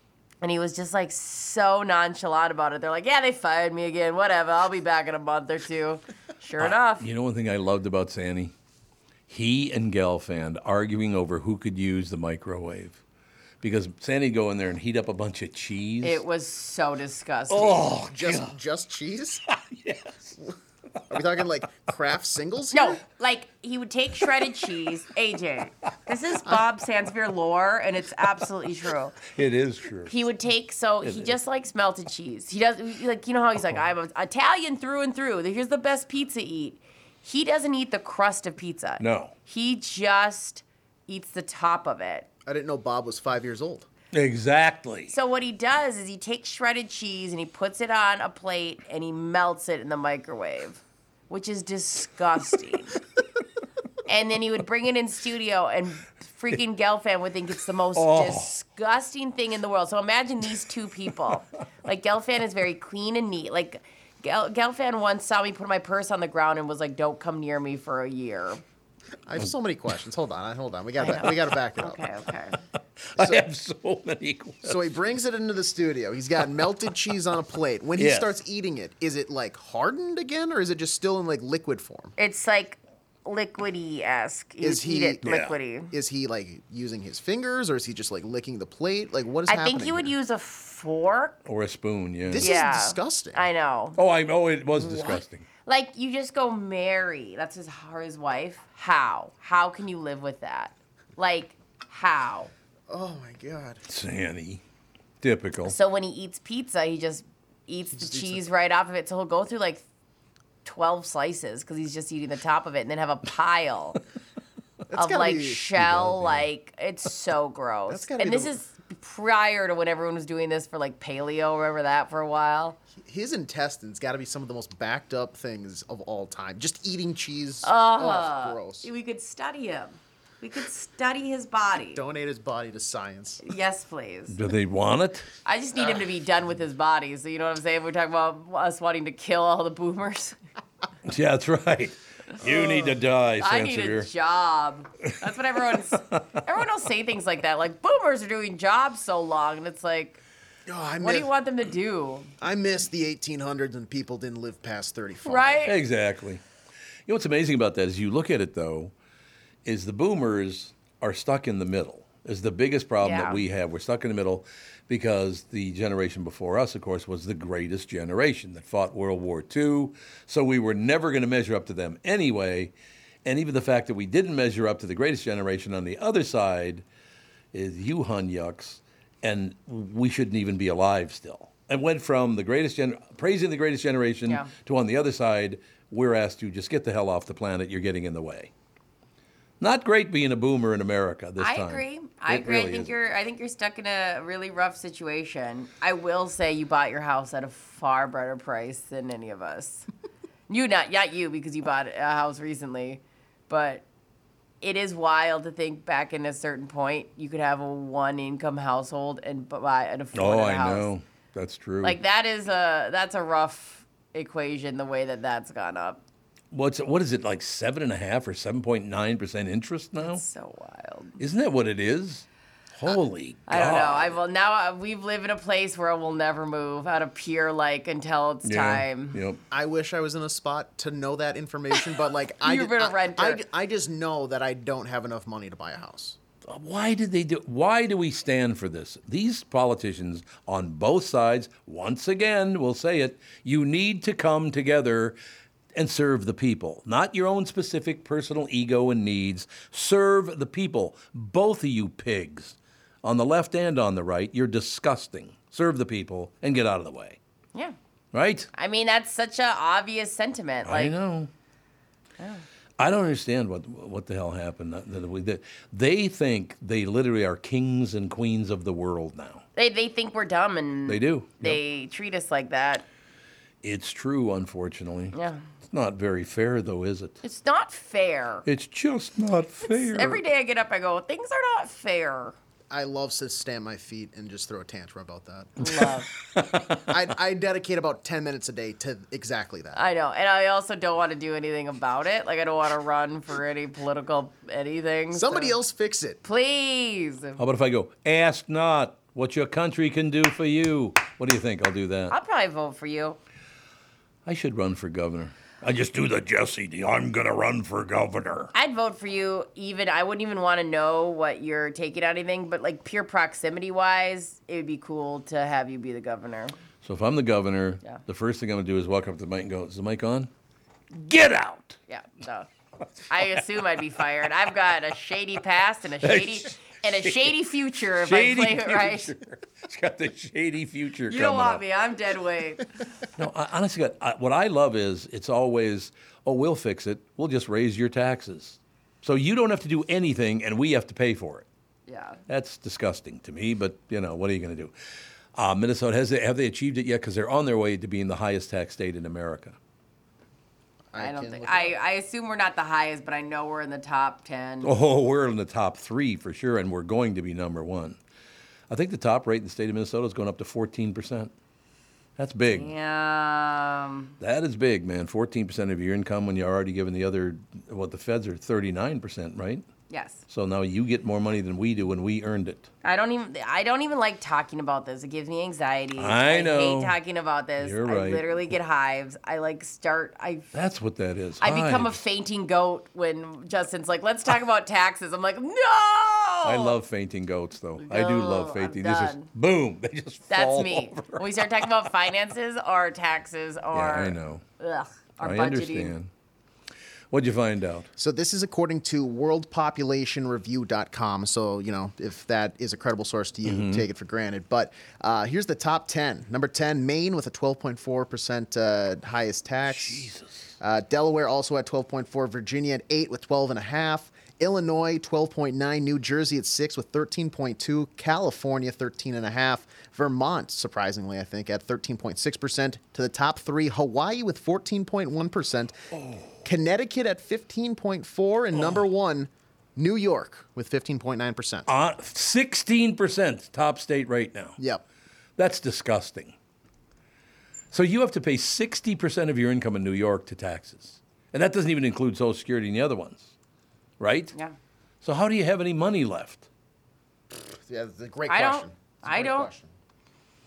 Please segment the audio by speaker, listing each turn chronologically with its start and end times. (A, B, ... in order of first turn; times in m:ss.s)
0:00.4-0:07.1 A
0:06.6-0:08.5 B
0:09.3-0:13.0 B
0:13.6-0:16.2 B
0:16.0-0:17.9 A
0:17.5-0:18.6 B
0:18.1-0:19.4 C
0:19.5-0:20.4 B
0:21.1-0:23.0 C
0:22.7-0:29.2 A
0:29.3-0:30.2 B
0:30.1-0:42.3 A
0:31.0-0:31.3 B
0:39.0-0:39.3 B
0:42.5-0:43.9 C
0:44.1-0:45.1 B
0:45.1-0:53.0 A
0:54.1-1:08.6 A
0:58.0-0:58.5 B
1:09.3-1:12.0 C
1:11.0-1:12.6 A
1:13.2-1:15.0 B
1:13.2-1:13.4 C
1:14.6-1:22.2 C
1:18.0-1:18.4 B
1:22.2-1:25.9 A
1:24.6-1:25.2 C
1:25.2-1:25.6 B
1:25.9-1:30.1 C
1:29.5-1:31.4 A
1:31.5-1:32.4 B
1:32.3-1:33.5 C
1:32.4-1:34.0 A
1:34.0-1:35.5 B
1:34.8-1:42.5 A
1:42.9-1:43.8 C
1:43.9-1:44.6 B
1:45.2-1:45.8 B
1:45.7-1:49.8 A
1:47.9-1:48.4 C
1:50.6-1:54.0 A
1:54.9-1:56.4 C
1:54.9-2:02.8 A
1:57.9-1:58.6 C
2:03.0-2:08.9 C
2:07.6-2:12.0 A
2:11.9-2:13.4 C
2:13.4-2:14.4 A
2:14.3-2:15.3 B
2:15.4-2:20.4 A
2:21.1-2:24.1 B
2:22.4-2:23.0 C
2:23.4-2:30.2 A
2:30.7-2:31.3 C
2:31.0-2:32.3 A
2:32.4-2:35.7 C
2:35.2-2:35.8 A
2:35.6-2:36.4 B
2:37.1-2:38.9 B
2:39.6-2:52.7 B
2:43.0-2:43.4 A
2:53.2-2:56.8 B
2:57.5-3:08.5 B
3:09.6-3:12.9 B
3:11.4-3:19.9 A
3:20.5-3:23.8 A
3:24.6-3:30.9 A
3:30.1-3:32.0 B
3:31.8-3:36.0 A
3:36.5-3:40.2 B
3:40.0-3:41.2 A
3:41.2-3:44.2 B
3:43.5-3:49.2 A
3:48.4-3:49.4 B
3:49.5-3:56.2 C
3:52.4-3:53.4 A
3:56.5-4:05.2 B
4:05.8-4:17.2 B
4:18.1-4:18.5 B
4:18.5-4:21.0 A
4:20.6-4:21.3 B
4:22.8-4:29.4 B
4:29.6-4:32.8 A
4:30.9-4:31.6 B
4:33.6-4:37.2 B
4:35.1-4:35.4 A
4:37.2-4:38.5 A
4:38.5-4:40.2 B
4:39.6-4:42.4 A
4:42.7-4:45.6 C
4:45.6-4:46.1 A
4:46.7-4:49.8 C
4:49.8-4:55.6 A
4:55.1-4:56.2 C
4:56.2-4:57.4 A
4:57.4-5:02.2 B
5:02.1-5:03.2 A
5:04.3-5:08.5 B
5:08.5-5:16.6 A
5:16.8-5:20.3 B
5:20.9-5:21.8 B
5:21.9-5:22.5 A
5:23.1-5:29.1 A
5:26.0-5:27.4 B
5:27.9-5:31.6 B
5:31.1-5:32.7 A
5:33.2-5:41.5 B
5:41.9-5:42.2 A
5:42.3-5:44.7 B
5:45.4-5:49.6 B
5:50.9-5:51.8 C
5:51.0-5:54.7 A
5:54.6-5:58.0 B
5:58.7-6:01.3 B
6:02.2-6:02.7 B
6:02.5-6:04.1 A
6:04.2-6:09.6 B
6:09.9-6:10.2 A
6:10.3-6:12.7 B
6:12.8-6:20.5 A
6:16.0-6:17.0 B
6:17.6-6:18.6 B
6:20.5-6:22.0 B
6:21.4-6:26.8 A
6:26.4-6:31.7 B
6:27.8-6:29.3 A
6:30.3-6:35.9 A
6:33.7-6:34.4 B
6:35.2-6:36.1 B
6:37.1-6:37.9 B
6:38.0-6:50.1 C
6:43.4-6:43.9 B
6:49.7-6:50.6 B
6:50.6-7:05.8 C
7:05.9-7:06.3 B
7:06.4-7:11.7 C
7:08.5-7:08.8 B
7:11.7-7:14.6 B
7:14.6-7:14.8 C
7:15.4-7:16.4 B
7:17.7-7:23.3 B
7:24.0-7:24.3 B
7:25.0-7:26.5 B
7:27.7-7:29.7 C
7:28.3-7:29.5 A